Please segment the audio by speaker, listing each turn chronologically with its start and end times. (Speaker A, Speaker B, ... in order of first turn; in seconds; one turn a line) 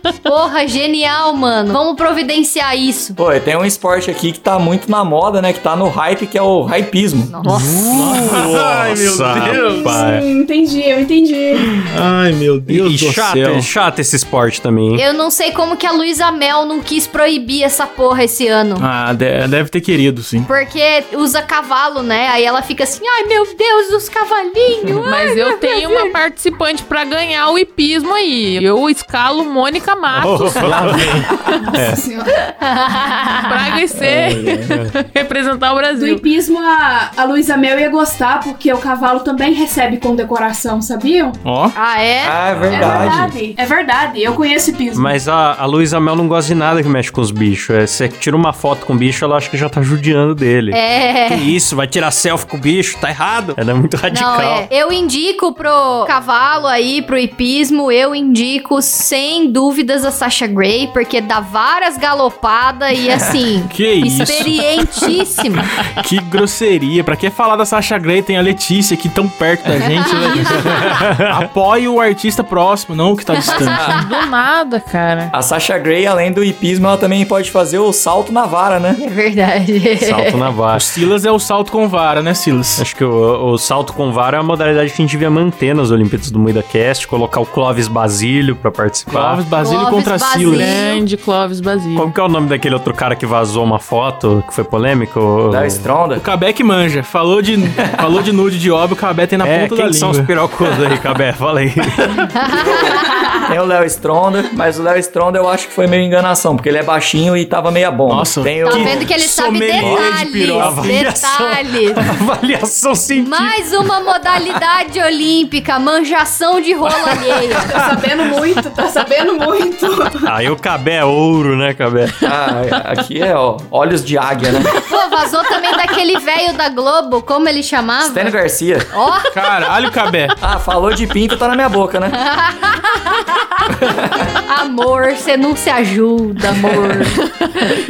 Speaker A: 0.2-3.2
Speaker B: 3.2-7.3
Speaker A: 7.3-8.1
Speaker C: 7.5-10.2
Speaker D: 7.7-10.1
Speaker E: 9.6-11.8
Speaker D: 11.8-13.7
Speaker C: 12.7-15.0
Speaker A: 15.0-18.9
Speaker D: 18.8-20.5
Speaker A: 20.5-26.1
Speaker F: 25.1-30.7
Speaker C: 30.1-32.0
Speaker D: 30.6-31.3
Speaker E: 31.4-32.3
Speaker A: 32.6-33.6
Speaker F: 33.5-36.2
Speaker B: 34.0-34.8
Speaker E: 36.0-41.4
Speaker D: 41.4-41.7
Speaker A: 41.8-42.4
Speaker B: 42.2-43.3
Speaker C: 42.5-43.3
Speaker E: 42.7-45.2
Speaker C: 44.9-54.7
Speaker A: 50.7-51.5
Speaker A: 54.1-65.7
Speaker B: 63.1-63.3
Speaker D: 63.7-73.9
Speaker A: 70.0-70.8
Speaker C: 70.6-71.4
Speaker A: 73.4-74.0
Speaker B: 73.5-74.0
Speaker F: 73.9-75.3
Speaker B: 75.3-79.0
Speaker A: 79.0-80.5
Speaker C: 80.0-80.9
Speaker D: 80.7-82.8
Speaker C: 82.8-89.4
Speaker D: 89.1-90.8
Speaker A: 89.6-91.0
Speaker F: 90.5-92.1
Speaker C: 92.0-95.9
Speaker B: 95.5-96.2
Speaker D: 96.2-100.3
Speaker B: 97.8-98.1
Speaker C: 99.4-102.2
Speaker A: 102.4-103.3
Speaker B: 102.5-109.1
Speaker D: 108.1-111.0
Speaker A: 108.6-112.0
Speaker C: 109.7-113.9
Speaker A: 113.2-117.7
Speaker E: 117.7-120.3
Speaker C: 120.2-122.2
Speaker B: 122.2-124.7
Speaker A: 124.8-128.4
Speaker B: 128.0-128.9
Speaker A: 128.9-129.4
Speaker D: 129.3-130.4
Speaker B: 130.4-132.2
Speaker A: 132.1-133.5
Speaker B: 133.7-134.3
Speaker A: 134.5-137.2